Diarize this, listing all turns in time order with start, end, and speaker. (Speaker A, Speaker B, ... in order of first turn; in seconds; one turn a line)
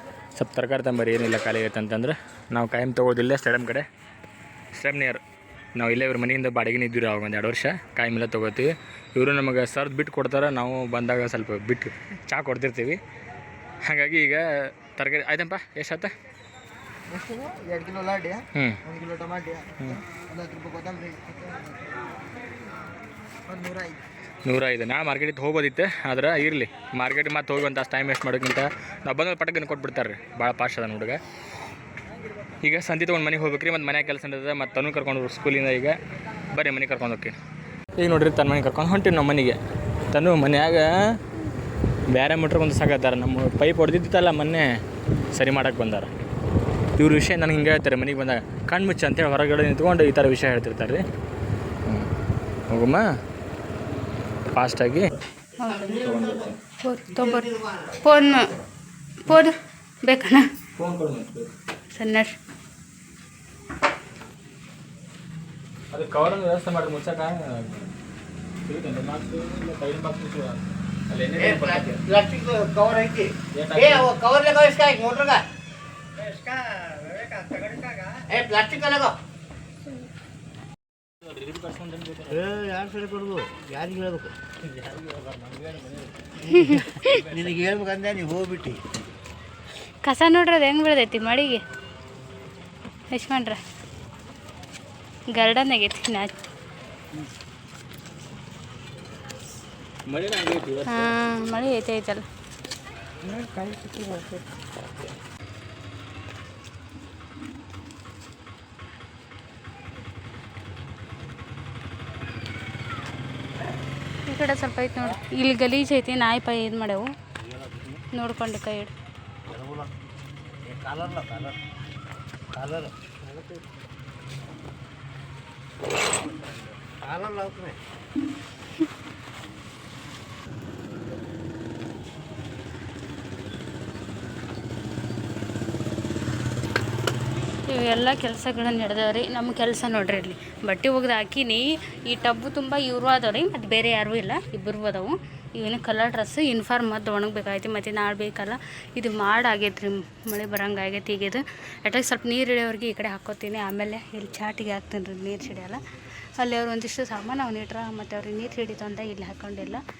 Speaker A: 0.3-3.9
Speaker A: 4.7-5.2
Speaker A: 5.8-13.0
Speaker A: 13.8-16.1
Speaker B: 17.1-21.7
Speaker A: 18.5-18.8
Speaker B: 23.5-23.9
Speaker A: 24.4-31.2
Speaker A: 32.6-36.0
Speaker A: 36.5-37.3
Speaker A: 38.0-39.6
Speaker A: 40.1-41.2
Speaker A: 42.1-44.7
Speaker A: 45.3-46.1
Speaker A: 47.0-51.0
Speaker A: 52.7-53.0
Speaker A: 54.5-55.1
Speaker C: 55.6-56.1
Speaker A: 55.8-56.6
Speaker C: 56.8-58.5
Speaker C: 59.2-60.4
Speaker A: 60.8-61.5
Speaker C: 61.9-62.3
Speaker A: 65.9-67.9
Speaker A: 68.7-72.0
Speaker B: 71.4-75.4
Speaker A: 73.5-74.1
Speaker B: 76.2-79.1
Speaker A: 81.2-82.4
Speaker B: 82.3-84.3
Speaker A: 84.8-85.9
Speaker B: 85.2-85.7
Speaker B: 86.4-88.8
Speaker C: 86.5-87.2
Speaker A: 87.1-87.4
Speaker C: 90.0-91.6
Speaker C: 93.1-93.6
Speaker C: 95.3-96.3
Speaker A: 100.1-101.1
Speaker C: 100.9-102.2
Speaker B: 103.3-104.4
Speaker C: 114.2-117.1
Speaker B: 117.5-118.0
Speaker C: 118.1-118.9
Speaker B: 119.5-119.9
Speaker B: 120.7-121.6
Speaker B: 122.5-123.6
Speaker B: 126.3-127.8
Speaker C: 137.7-155.8
Speaker C: 156.4-159.8